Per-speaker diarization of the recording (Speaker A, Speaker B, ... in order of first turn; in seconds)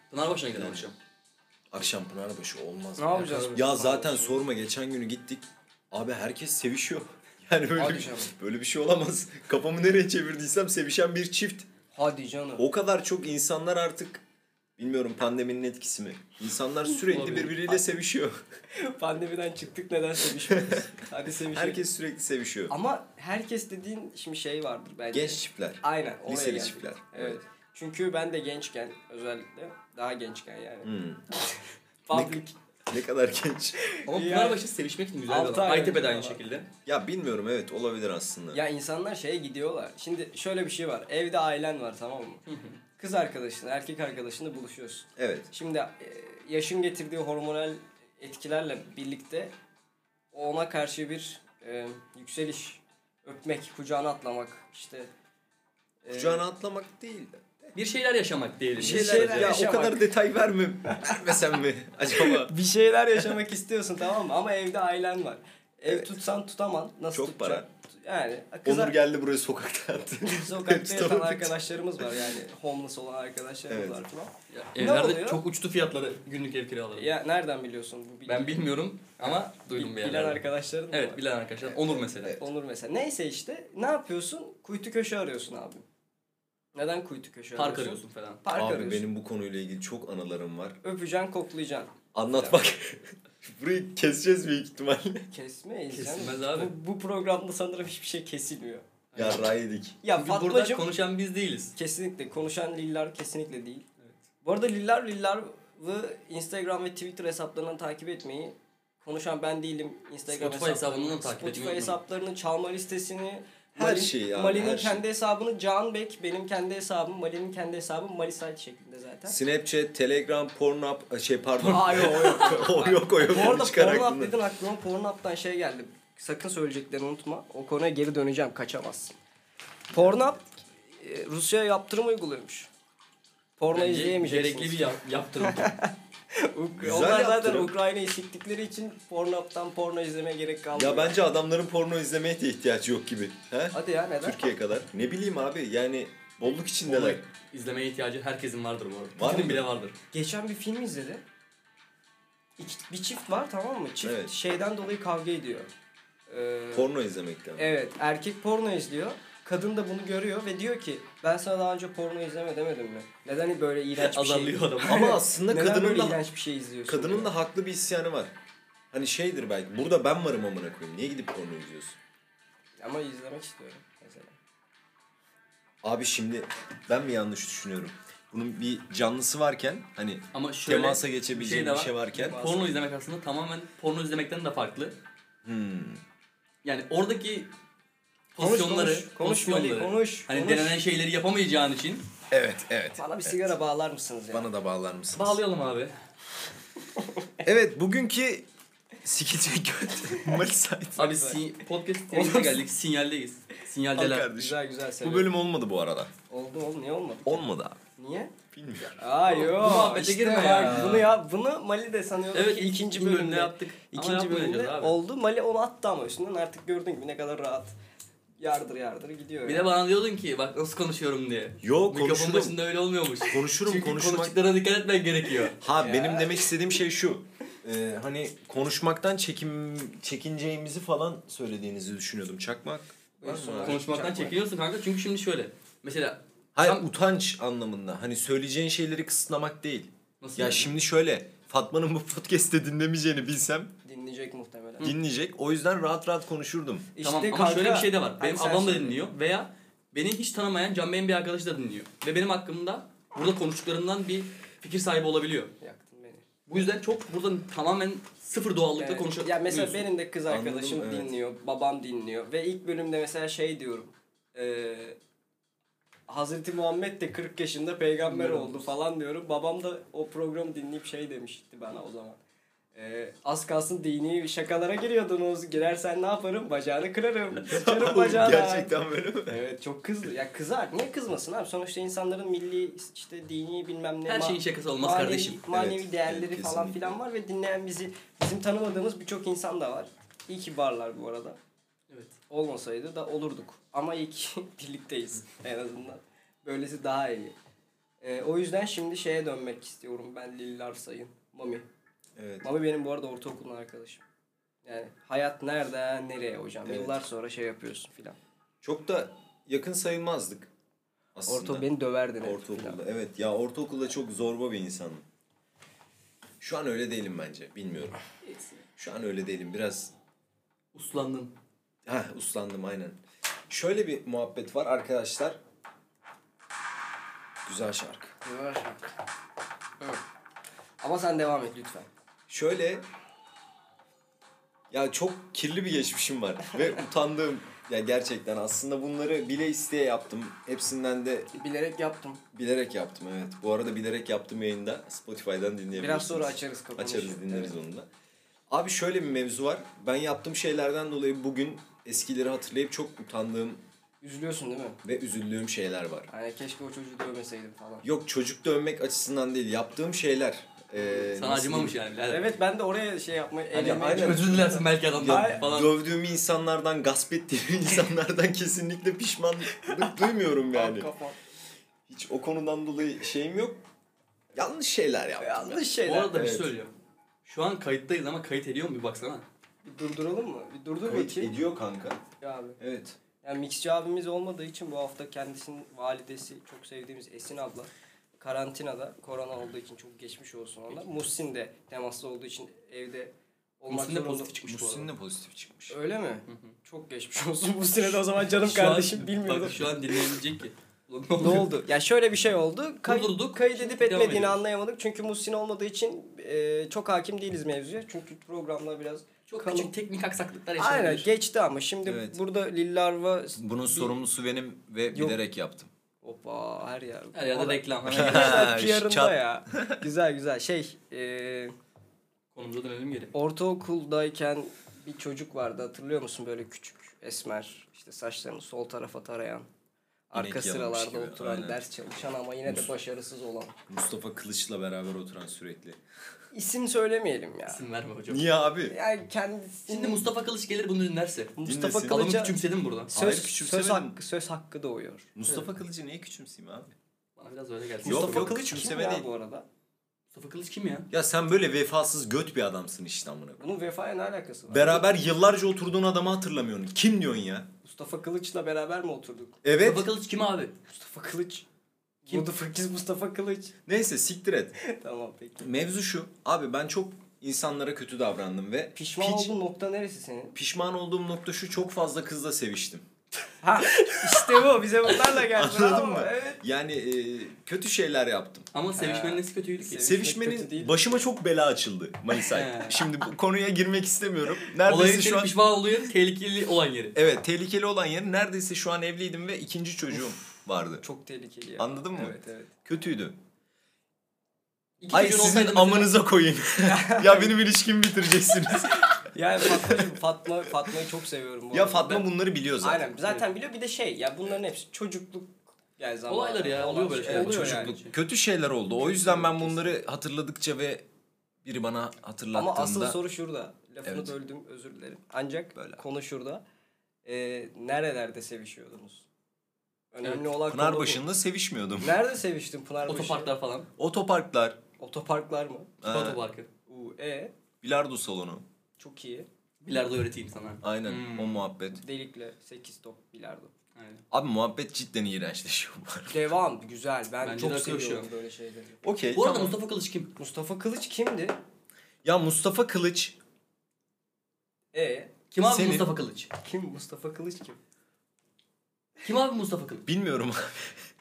Speaker A: 0.1-0.9, 3.1-3.6, 17.1-17.6, 34.1-36.7, 42.5-42.8, 57.7-59.5, 74.5-77.1, 78.2-82.4, 87.5-88.4, 95.9-96.7, 99.1-99.5, 100.1-101.7, 110.3-112.0, 133.7-135.7, 146.8-149.9, 164.0-165.2, 180.3-185.0, 186.6-187.5, 188.3-192.1, 195.1-195.9, 201.0-204.3, 209.2-211.1, 212.3-214.9, 219.4-225.6, 233.6-236.8, 240.2-240.7, 247.0-255.5, 256.5-259.8, 268.0-268.6, 284.1-285.4, 291.9-292.1, 318.2-318.6, 320.7-321.3, 361.0-362.3, 363.5-365.7, 375.8-376.7, 377.2-379.2, 393.7-394.9, 398.2-401.5, 402.8-404.4, 409.3-411.1, 417.1-418.5, 422.3-423.1, 437.5-438.3, 439.7-442.9, 447.2-448.3, 450.1-450.9, 459.6-460.6, 478.5-479.9, 482.2-482.8, 484.5-487.0, 494.8-495.9, 506.1-507.9, 522.9-523.7, 525.8-526.5, 529.6-531.4, 533.7-534.0, 537.2-538.1, 539.1-540.1, 545.3-546.3, 549.0-549.8
Speaker B: 0.5-0.9, 1.7-11.7, 12.6-14.2, 14.8-18.4, 20.5-22.7, 25.1-27.4, 30.8-31.2, 32.1-33.8, 36.9-38.6, 45.2-45.5, 56.1-57.8, 58.8-62.5, 65.9-66.2, 67.1-67.7, 68.6-72.2, 73.7-74.0, 88.5-90.8, 92.1-95.2, 99.2-100.0, 113.8-115.0, 119.3-124.3, 136.8-137.7, 140.7-147.2, 149.2-149.7, 154.0-154.3, 156.7-157.7, 164.8-166.2, 166.9-168.3, 168.9-172.0, 175.8-182.4, 185.4-186.0, 192.3-193.5, 194.3-195.4, 197.4-198.4, 199.0-201.2, 203.9-206.1, 207.2-207.8, 208.5-208.9, 210.4-211.1, 221.6-222.6, 223.2-224.3, 225.6-233.8, 236.5-243.7, 244.8-246.9, 260.3-261.1, 277.4-279.4, 285.5-286.9, 302.1-302.4, 306.6-307.0, 308.6-310.5, 311.1-311.7, 312.2-315.1, 316.4-318.0, 318.8-319.9, 321.9-323.0, 323.5-325.4, 327.4-328.1, 332.3-332.8, 334.7-341.3, 342.3-347.9, 348.5-353.6, 354.8-356.1, 357.8-361.8, 363.5-370.9, 371.9-373.6, 374.3-376.5, 380.8-382.0, 382.6-383.0, 394.4-395.8, 411.8-412.2, 413.4-415.7, 417.9-419.8, 430.1-431.6, 432.4-432.7, 433.7-435.8, 438.1-438.8, 441.4-442.1, 442.9-443.9, 445.1-446.7, 447.8-449.1, 450.9-453.4, 454.5-457.5, 459.4-459.9, 463.6-464.6, 465.4-469.4, 470.3-472.8, 475.1-478.5, 479.8-485.4, 486.9-490.8, 491.6-493.2, 494.9-499.9, 501.5-503.0, 507.1-510.9, 511.4-513.0, 513.8-514.1, 515.5-515.8, 520.5-522.0, 523.8-524.6, 525.8-526.2, 527.6-528.4, 530.6-531.8, 534.1-536.3, 538.8-539.6, 542.0-543.2, 545.4-545.9, 549.8-550.8
Speaker C: 3.0-4.4, 7.8-8.3, 11.9-12.6, 18.7-21.8, 22.7-30.9, 32.1-32.5, 33.9-34.6, 35.2-36.4, 38.5-42.4, 43.0-49.5, 50.3-55.1, 56.0-56.4, 58.8-60.1, 60.9-61.2, 62.1-69.0, 70.2-75.4, 77.0-78.6, 79.2-85.8, 86.7-89.0, 90.8-92.6, 95.3-98.8, 100.0-100.8, 101.8-103.8, 104.4-119.4, 121.6-129.1, 129.9-132.7, 133.6-141.2, 143.7-144.4, 150.1-151.2, 152.6-155.7, 156.3-156.9, 157.6-167.3, 172.8-174.4, 182.1-182.7, 188.4-190.8, 193.0-194.4, 197.0-197.2, 201.0-201.4, 202.1-202.6, 204.3-205.3, 206.3-208.3, 208.9-217.7, 218.4-219.7, 225.8-226.5, 233.2-234.4, 243.8-244.9, 246.9-249.1, 255.6-256.2, 258.8-265.0, 266.1-272.2, 272.7-278.7, 279.3-291.4, 292.3-297.3, 298.0-301.6, 302.4-304.0, 304.6-308.2, 311.3-312.8, 328.2-328.8, 330.8-331.9, 341.3-342.2, 345.7-347.6, 354.0-354.8, 356.1-357.9, 362.1-365.4, 369.6-369.9, 370.5-371.2, 375.2-376.3, 379.6-381.3, 382.2-382.6, 383.2-394.3, 395.7-400.1, 401.2-409.7, 410.6-414.0, 414.9-415.2, 416.0-421.5, 423.1-429.5, 430.1-433.6, 436.3-437.6, 438.7-440.1, 441.4-442.3, 442.9-445.1, 447.8-449.4, 453.4-454.9, 457.6-459.4, 460.7-461.4, 462.0-463.5, 464.6-465.5, 468.8-470.4, 473.4-476.4, 478.8-481.0, 490.8-492.5, 496.6-497.3, 498.7-502.1, 502.6-507.8, 508.8-509.8, 512.3-516.4, 517.0-519.0, 519.9-521.0, 521.8-523.3, 524.8-525.8, 526.7-527.3, 528.8-529.3, 531.8-533.5, 536.1-538.8, 540.1-541.4, 544.7-545.1, 546.4-547.6